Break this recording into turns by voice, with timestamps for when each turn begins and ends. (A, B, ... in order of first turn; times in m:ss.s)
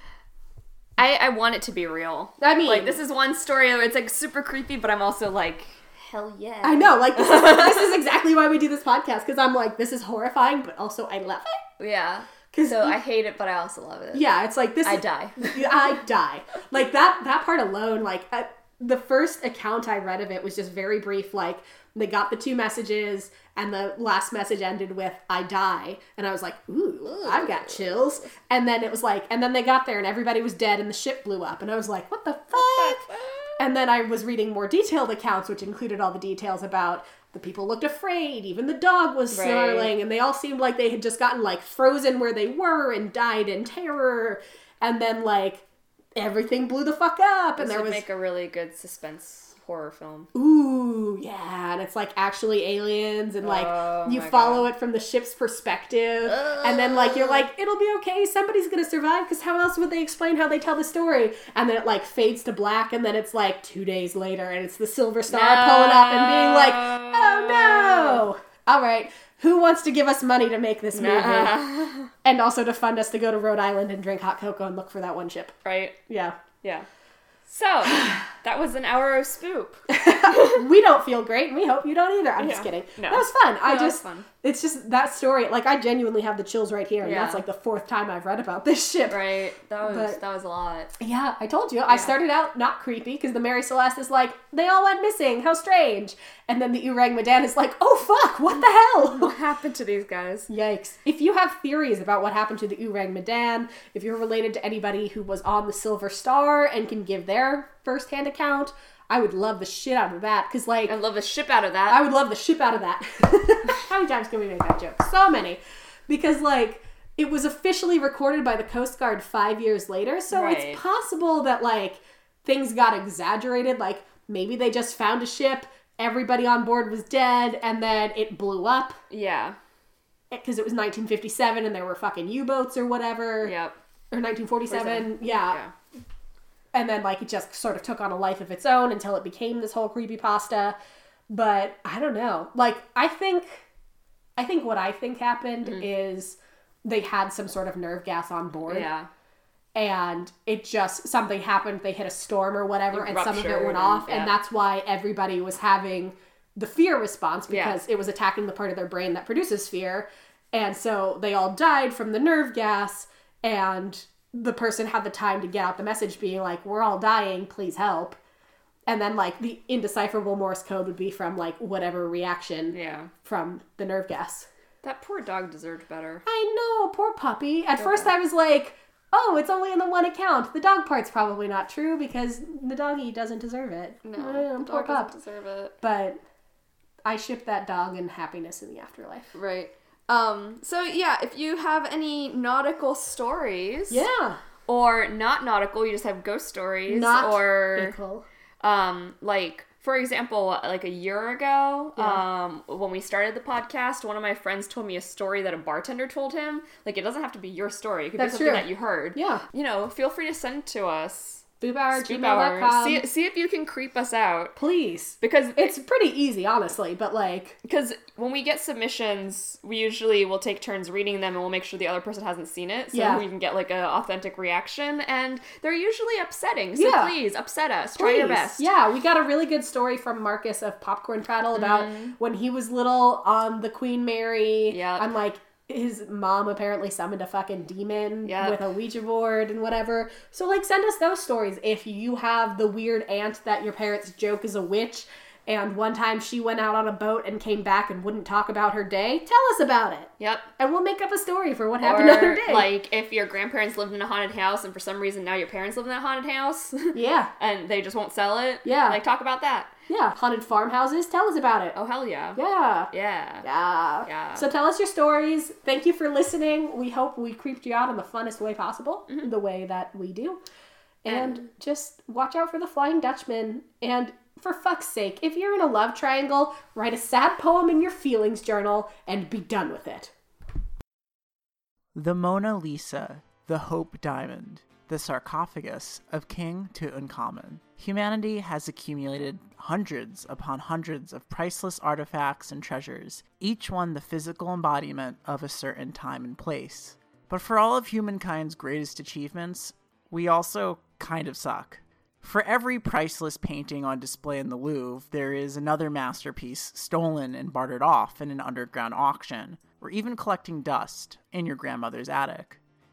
0:01.0-0:08.0 A
0:02.4-0:03.0 B
0:06.6-0:11.6 B
0:11.8-0:14.2 A
0:12.5-0:13.0 B
0:14.1-0:45.6 B
0:14.8-0:15.6 A
0:27.1-0:28.3 A
0:32.5-0:33.6 A
0:39.3-0:39.9 A
0:46.2-0:48.0 B
0:47.6-0:50.3 A
0:50.3-1:11.7 B
0:53.4-0:54.7 A
0:56.3-0:57.4 A
1:05.3-1:08.2 A
1:10.9-1:12.1 A
1:12.2-1:15.6 B
1:15.6-1:16.0 A
1:16.1-1:16.4 B
1:17.5-1:20.6 A
1:19.9-1:29.2 B
1:22.4-1:24.3 A
1:27.0-1:27.4 A
1:29.1-1:30.9 A
1:29.8-1:30.2 B
1:31.0-1:39.3 B
1:39.0-1:40.5 A
1:40.5-1:51.0 B
1:50.9-1:52.0 A
1:51.9-2:09.0 B
2:00.3-2:00.8 A
2:09.1-2:09.6 A
2:10.3-2:13.5 B
2:13.4-2:13.8 A
2:14.1-2:15.6 B
2:14.7-2:15.7 A
2:16.7-2:20.8 B
2:21.3-2:23.6 B
2:24.4-2:28.9 B
2:28.7-2:29.1 A
2:29.8-2:48.2 B
2:32.9-2:34.4 A
2:37.5-2:37.8 A
2:48.9-2:54.5 B
2:52.7-2:53.1 A
2:54.8-2:56.2 A
2:56.2-3:05.1 B
2:57.8-2:58.1 A
3:04.0-3:05.8 A
3:05.8-3:06.2 B
3:07.0-3:09.3 B
3:09.3-3:14.0 A
3:13.9-3:14.4 B
3:14.7-3:18.0 A
3:16.9-3:18.3 B
3:18.6-3:34.6 A
3:22.0-3:22.2 B
3:28.2-3:29.4 B
3:31.6-3:33.0 B
3:34.6-3:37.6 B
3:35.2-3:35.7 A
3:37.6-3:48.7 A
3:42.9-3:43.2 B
3:46.7-3:47.2 B
3:48.0-4:12.7 B
3:51.6-3:52.2 A
3:54.7-3:55.1 A
3:58.2-3:58.6 A
4:10.2-4:10.5 A
4:11.8-4:19.7 A
4:16.9-4:17.3 B
4:18.6-4:19.0 B
4:19.9-4:21.8 B
4:21.7-4:22.4 A
4:22.4-4:22.9 B
4:22.9-4:23.5 A
4:23.4-4:30.4 B
4:24.0-4:24.5 A
4:31.0-4:40.1 B
4:31.1-4:31.4 A
4:42.0-5:12.6 C